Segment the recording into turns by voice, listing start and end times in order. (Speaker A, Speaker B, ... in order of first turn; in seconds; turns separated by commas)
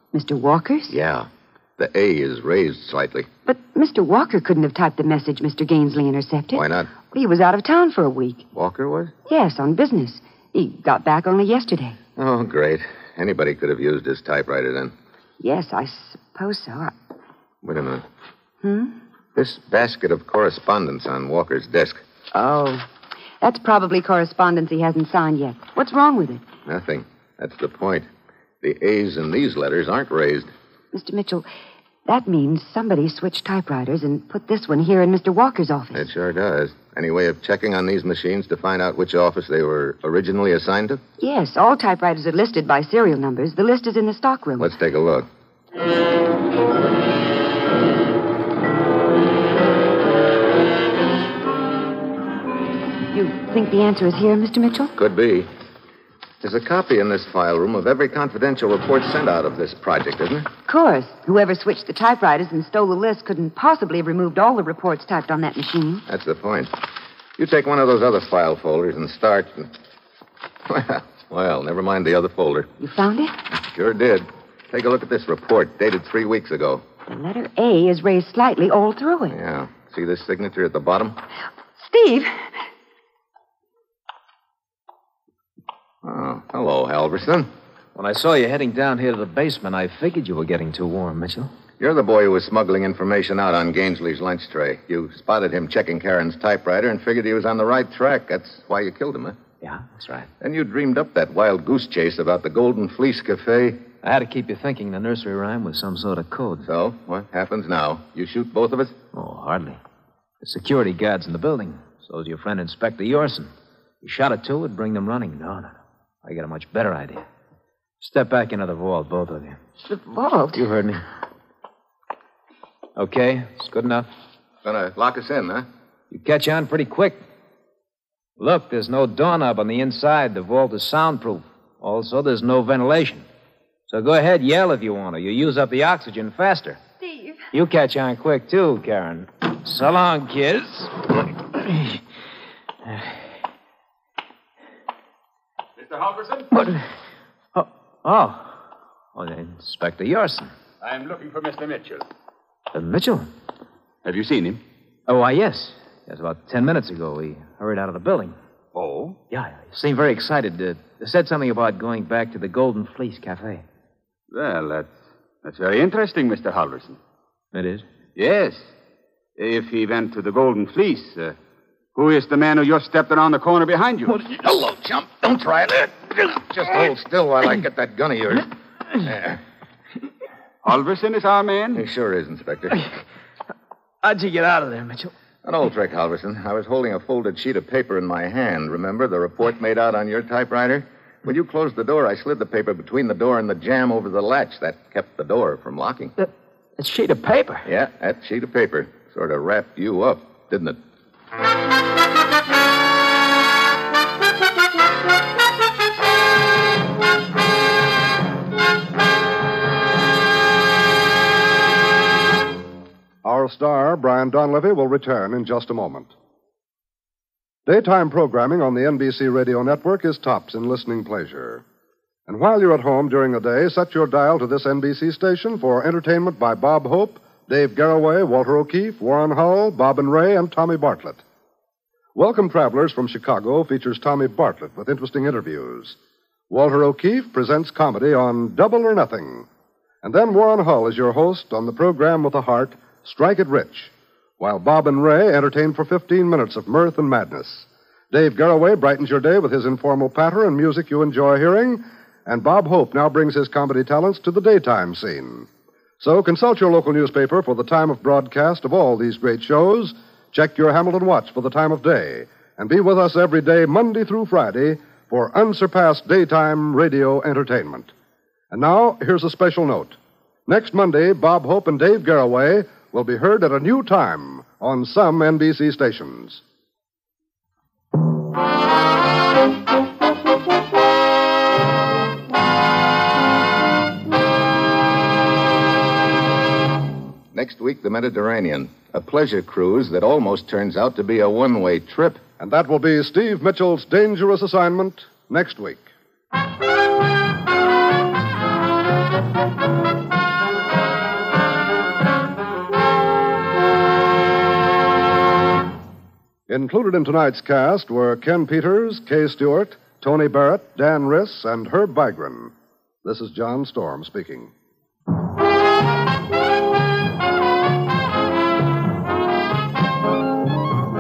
Speaker A: 0.1-1.0, Speaker B: 0.9-3.3, Speaker A: 3.5-8.4, Speaker B: 6.5-6.9, Speaker B: 8.5-9.1, Speaker A: 9.3-11.9, Speaker B: 12.2-14.9, Speaker A: 15.4-16.9, Speaker B: 17.6-18.1, Speaker A: 18.6-18.9, Speaker B: 19.3-22.0, Speaker A: 22.3-22.9, Speaker A: 23.4-26.4, Speaker B: 26.6-28.1, Speaker B: 28.6-30.5, Speaker A: 30.9-31.5, Speaker A: 32.0-36.0, Speaker B: 35.9-41.0, Speaker A: 41.2-44.7, Speaker B: 44.6-45.3, Speaker A: 53.1-54.9, Speaker B: 55.0-55.5, Speaker B: 56.4-60.5, Speaker A: 60.7-66.0, Speaker B: 66.1-66.8, Speaker B: 67.4-69.7, Speaker B: 70.7-72.7, Speaker A: 72.8-73.3, Speaker B: 73.5-76.8, Speaker A: 77.1-79.3, Speaker B: 79.3-81.2, Speaker A: 81.8-82.5, Speaker B: 86.0-87.5, Speaker C: 87.9-91.5, Speaker B: 91.8-99.4, Speaker C: 99.6-100.3, Speaker B: 100.4-103.9, Speaker C: 104.0-106.7, Speaker B: 106.6-109.0, Speaker C: 109.1-109.8, Speaker C: 110.4-117.2, Speaker C: 118.0-119.6, Speaker A: 119.8-120.7, Speaker C: 120.5-121.0, Speaker C: 123.0-124.1, Speaker B: 124.6-125.7, Speaker C: 126.1-127.2, Speaker C: 128.4-133.2, Speaker C: 133.9-136.8, Speaker A: 137.0-137.4, Speaker C: 137.5-142.0, Speaker D: 145.8-146.5, Speaker C: 147.5-148.6, Speaker C: 149.1-150.5, Speaker D: 150.8-152.1, Speaker C: 152.7-153.3, Speaker D: 154.0-154.6, Speaker C: 155.1-158.4, Speaker D: 158.7-159.2, Speaker C: 159.3-163.6, Speaker D: 164.3-167.0, Speaker C: 167.5-167.8, Speaker D: 168.2-168.7, Speaker D: 169.4-171.3, Speaker D: 171.9-174.2, Speaker B: 174.2-179.4, Speaker D: 180.6-181.8, Speaker B: 181.7-182.8, Speaker C: 184.0-185.1, Speaker B: 185.4-196.1, Speaker C: 196.2-197.7, Speaker B: 197.6-200.8, Speaker E: 213.2-216.1, Speaker E: 217.7-221.6, Speaker E: 222.3-231.2, Speaker E: 232.1-235.9, Speaker E: 236.5-239.4, Speaker E: 240.0-255.5, Speaker E: 256.0-267.9, Speaker E: 268.5-276.4, Speaker B: 287.3-292.2, Speaker E: 292.4-295.9, Speaker E: 306.5-312.5, Speaker E: 313.0-314.5